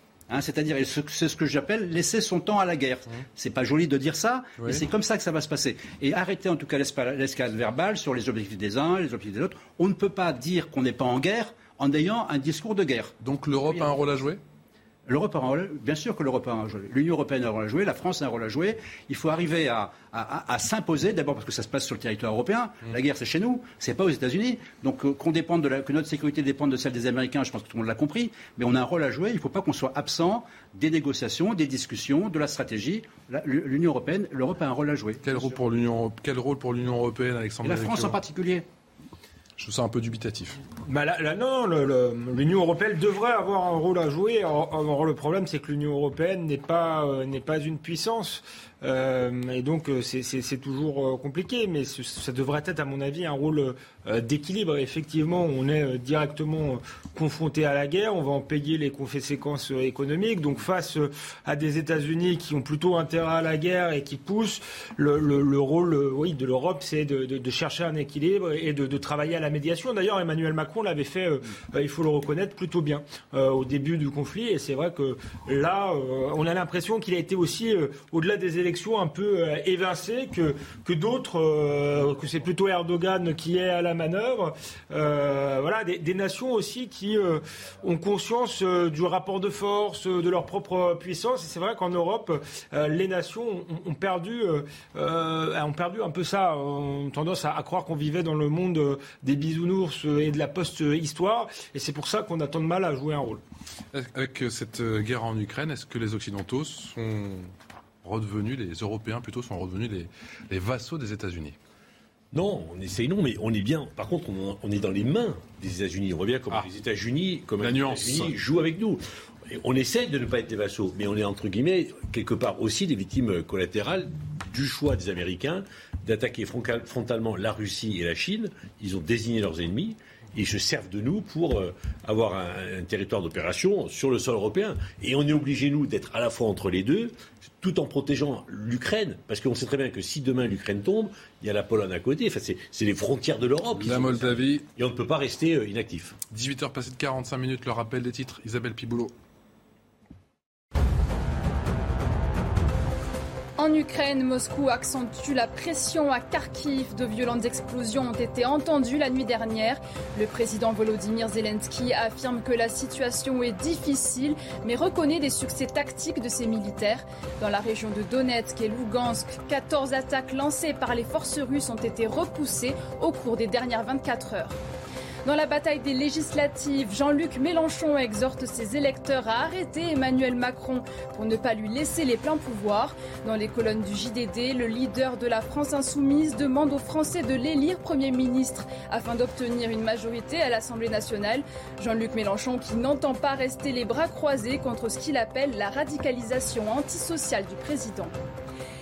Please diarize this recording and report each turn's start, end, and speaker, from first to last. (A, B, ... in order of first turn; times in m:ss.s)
0:00.3-0:13.1 A
0:04.6-0:04.8 B
0:13.2-0:14.4 B
0:13.6-0:14.1 A
0:15.1-0:35.6 A
0:35.2-0:38.2 B
0:37.6-0:38.6 A
0:39.6-0:40.6 B
0:40.8-1:43.4 C
1:43.9-1:47.5 B
1:48.0-1:51.5 B
1:52.3-2:26.2 D
1:57.6-1:58.3 B
2:23.8-2:24.2 A
2:23.8-2:24.6 B
2:26.3-2:29.1 B
2:33.6-2:54.6 E
2:55.2-3:18.1 E